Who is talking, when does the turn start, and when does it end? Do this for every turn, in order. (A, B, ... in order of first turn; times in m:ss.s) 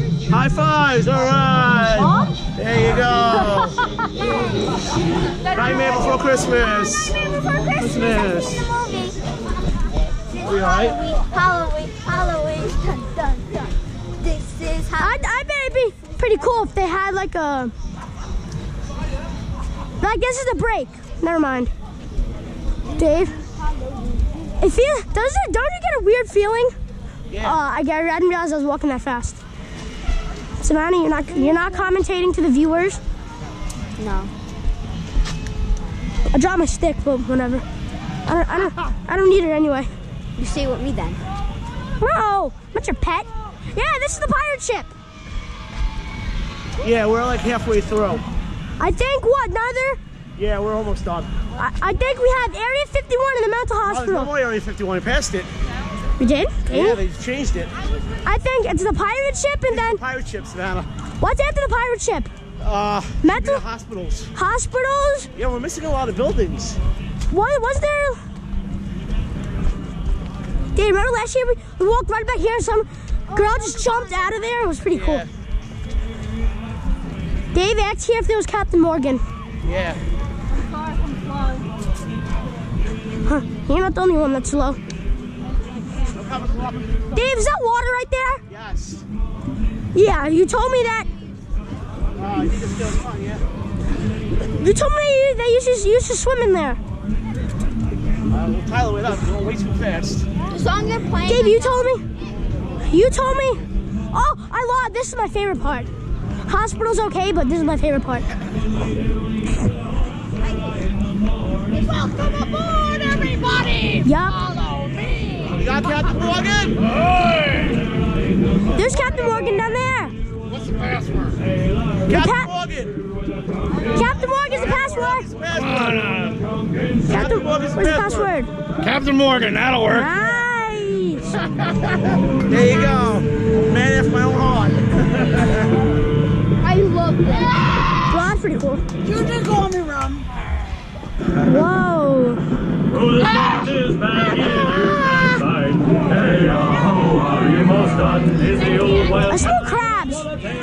0:00.3-0:03.8 A
0:02.0-0:02.3 B
0:03.4-0:04.6 B
0:05.5-0:06.1 B
0:05.5-0:07.1 A
0:07.1-0:09.2 B
0:07.7-0:08.6 A
0:10.3-0:13.7 B
0:10.4-0:11.0 A
0:14.2-0:15.3 B
0:15.0-0:17.7 C
0:20.0-0:21.7 C
0:22.9-0:24.5 D
0:23.0-0:23.3 C
0:24.6-0:26.7 C
0:27.3-0:27.6 A
0:27.4-0:29.4 C
0:30.6-0:33.0 C
0:34.0-0:34.3 B
0:36.3-0:37.6 C
0:38.2-0:39.9 C
0:40.4-0:41.2 B
0:42.0-0:44.9 C
0:46.8-0:48.2 A
0:48.8-0:50.0 C
0:50.4-0:51.3 A
0:51.6-0:54.3 C
0:53.8-0:55.5 A
0:56.2-0:57.0 C
0:56.7-0:57.7 A
0:58.2-1:00.0 C
0:59.7-1:00.9 A
1:01.2-1:02.3 C
1:02.6-1:04.3 A
1:03.2-1:03.6 C
1:04.3-1:05.3 C
1:05.3-1:06.8 A
1:07.3-1:08.2 C
1:10.8-1:15.2 C
1:13.3-1:14.3 B
1:14.9-1:15.3 A
1:17.5-1:19.2 C
1:19.6-1:20.0 A
1:20.5-1:21.7 D
1:23.2-1:24.8 C
1:26.1-1:27.3 A
1:27.1-1:28.4 C
1:28.5-1:29.0 A
1:29.9-1:31.1 C
1:32.2-1:33.4 A
1:34.6-1:36.8 C
1:38.3-1:40.3 A
1:40.5-1:42.0 B
1:41.2-1:42.0 C
1:42.8-1:45.9 C
1:46.5-1:48.3 C
1:50.4-1:50.9 B
1:51.7-1:56.3 B
1:54.0-1:54.4 C
1:55.6-1:56.9 A
1:58.7-2:00.1 C
2:02.0-2:03.0 A
2:02.1-2:02.5 C
2:03.9-2:05.3 C
2:04.1-2:06.5 A
2:07.0-2:10.2 A
2:07.1-2:08.5 C
2:09.8-2:11.3 C
2:11.3-2:15.8 A
2:12.5-2:13.0 B
2:16.6-2:17.7 B
2:18.1-2:18.8 C
2:19.0-2:20.3 D
2:21.4-2:22.4 C
2:22.9-2:29.5 A
2:28.7-2:29.1 B
2:29.2-2:30.3 C